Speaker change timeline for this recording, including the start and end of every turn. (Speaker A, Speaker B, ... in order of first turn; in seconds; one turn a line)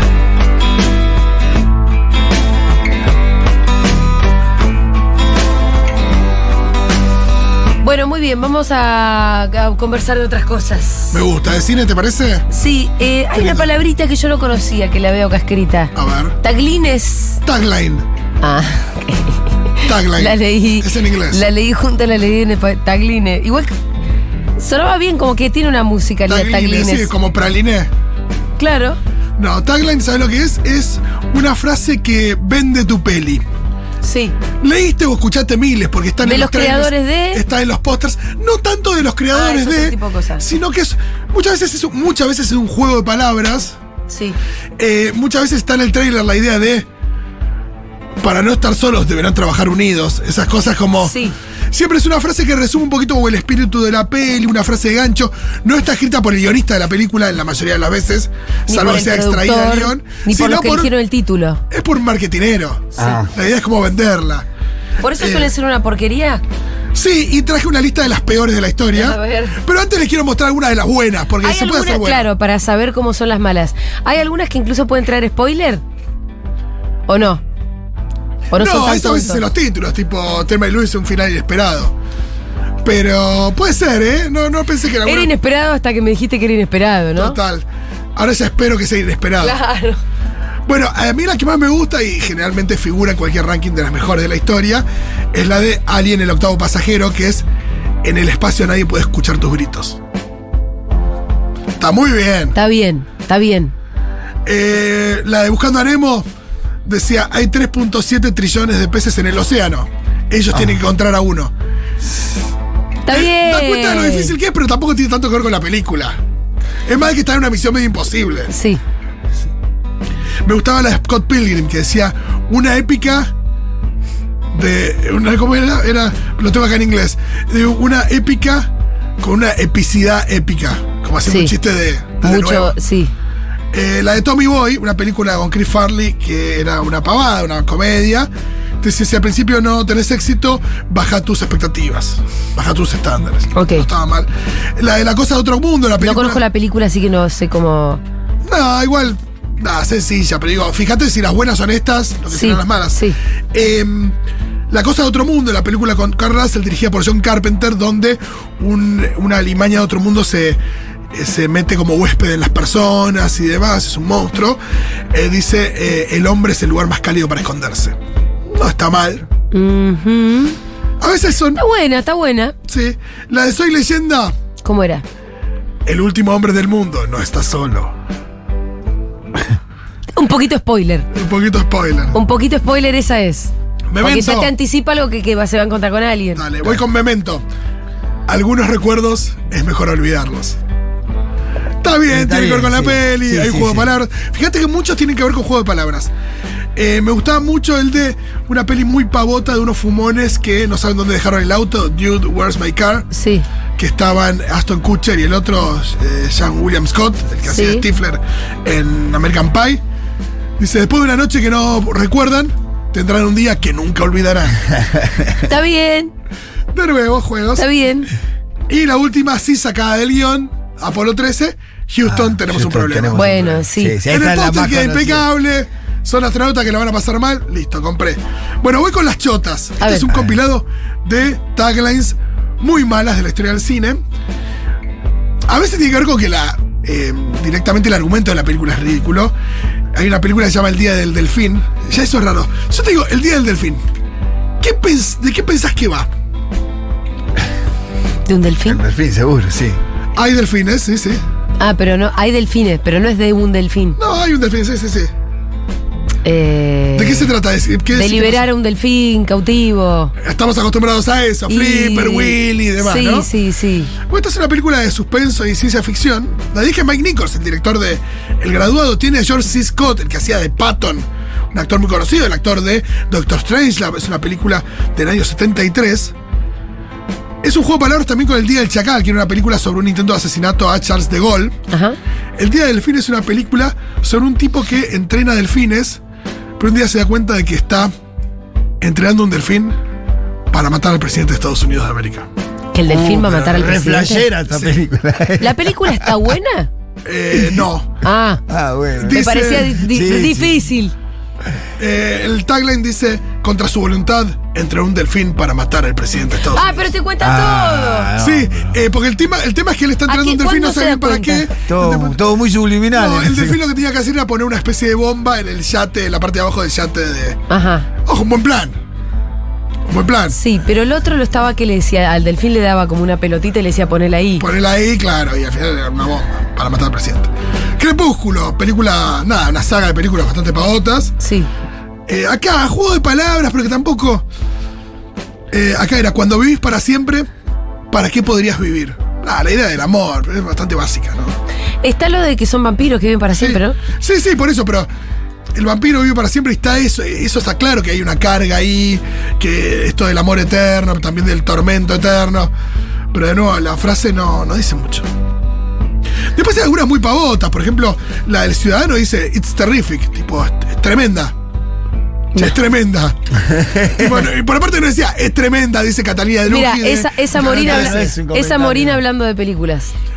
Speaker A: 7.8-11.2
Speaker B: 11.1-12.4
Speaker A: 12.5-17.4
Speaker B: 13.3-13.7
Speaker B: 15.9-16.4
Speaker B: 17.4-18.1
Speaker A: 18.4-23.7
Speaker B: 19.8-21.4
Speaker A: 24.6-27.1
Speaker B: 26.3-27.9
Speaker A: 28.6-29.0
Speaker B: 29.4-33.4
Speaker A: 34.0-34.3
Speaker B: 34.6-43.8
Speaker A: 36.2-37.4
Speaker A: 39.3-40.5
Speaker A: 44.1-44.4
Speaker B: 44.8-46.9
Speaker B: 48.2-51.1
Speaker A: 51.0-51.3
Speaker B: 51.7-60.9
Speaker A: 58.7-61.6
Speaker B: 61.7-64.5
Speaker C: 63.0-63.3
Speaker A: 65.0-66.4
Speaker B: 65.2-65.5
Speaker B: 66.9-72.3
Speaker A: 68.9-69.6
Speaker A: 71.4-75.8
Speaker A: 77.1-77.4
Speaker B: 78.5-81.9
Speaker A: 78.5-79.4
Speaker B: 82.8-85.3
Speaker A: 85.0-87.4
Speaker B: 87.2-89.6
Speaker A: 89.4-90.0
Speaker B: 90.7-97.5
Speaker B: 98.0-100.0
Speaker B: 101.8-102.5
Speaker A: 102.5-103.7
Speaker B: 104.5-106.2
Speaker B: 106.8-111.5
Speaker A: 113.0-114.3
Speaker B: 113.1-116.2
Speaker B: 116.8-118.5
Speaker A: 118.5-118.8
Speaker B: 120.4-123.3
Speaker B: 124.5-132.7
Speaker A: 131.2-131.5
Speaker A: 132.2-133.1
Speaker B: 133.7-138.3
Speaker B: 138.8-146.4
Speaker A: 143.5-143.9
Speaker A: 146.0-148.0
Speaker B: 148.4-153.0
Speaker A: 152.3-153.2
Speaker B: 153.5-154.2
Speaker B: 154.7-160.6
Speaker B: 161.1-164.6
Speaker B: 165.1-167.9
Speaker B: 168.5-169.3
Speaker A: 169.5-170.6
Speaker B: 171.0-171.6
Speaker A: 171.6-172.5
Speaker B: 172.7-174.3
Speaker A: 174.6-175.0
Speaker B: 175.8-177.9
Speaker A: 180.1-181.1
Speaker B: 181.1-182.2
Speaker A: 182.1-186.4
Speaker B: 183.9-184.5
Speaker B: 186.3-187.4
Speaker B: 188.3-190.6
Speaker B: 191.8-196.1
Speaker C: 192.1-193.9
Speaker B: 196.8-203.1
Speaker A: 203.1-203.4
Speaker B: 203.8-209.8
Speaker A: 207.4-207.9
Speaker B: 210.6-214.6
Speaker C: 214.8-215.2
Speaker A: 215.4-216.1
Speaker B: 216.7-217.6
Speaker A: 217.6-218.1
Speaker B: 218.7-234.0
Speaker C: 222.0-225.3
Speaker A: 223.1-224.0
Speaker A: 229.8-230.1
Speaker B: 235.5-239.3
Speaker B: 239.9-243.8
Speaker B: 244.6-246.1
Speaker A: 248.2-248.8
Speaker C: 248.7-249.8
Speaker B: 250.2-251.2
Speaker A: 251.6-254.0
Speaker B: 254.0-255.1
Speaker A: 256.2-257.3
Speaker B: 256.9-258.5
Speaker A: 257.9-260.1
Speaker B: 260.2-263.3
Speaker A: 261.5-263.9
Speaker B: 264.1-276.1
Speaker B: 277.4-281.5
Speaker A: 281.7-282.0
Speaker B: 282.4-286.0
Speaker B: 286.6-287.9
Speaker B: 288.8-289.8
Speaker B: 290.5-292.3
Speaker A: 292.7-294.3
Speaker C: 292.8-296.1
Speaker B: 294.5-294.8
Speaker A: 295.4-296.7
Speaker B: 297.0-298.0
Speaker A: 298.0-298.4
Speaker C: 298.5-300.6
Speaker B: 299.0-299.8
Speaker A: 299.0-300.9
Speaker B: 301.8-306.9
Speaker A: 306.5-308.1
Speaker C: 307.2-308.8
Speaker B: 308.2-312.2
Speaker A: 310.1-311.5
Speaker C: 311.7-313.6
Speaker B: 312.9-317.4
Speaker A: 317.5-317.9
Speaker B: 318.1-318.8
Speaker B: 319.9-320.4
Speaker A: 320.3-324.4
Speaker B: 324.4-331.1
Speaker A: 331.2-331.5
Speaker B: 332.1-334.2
Speaker B: 335.5-337.3
Speaker B: 337.9-341.4
Speaker A: 341.8-343.8
Speaker B: 343.3-344.9
Speaker B: 345.5-352.5
Speaker B: 353.1-355.1
Speaker B: 356.3-361.3
Speaker B: 362.4-363.2
Speaker B: 363.8-368.1
Speaker A: 366.4-369.9
Speaker C: 367.4-369.0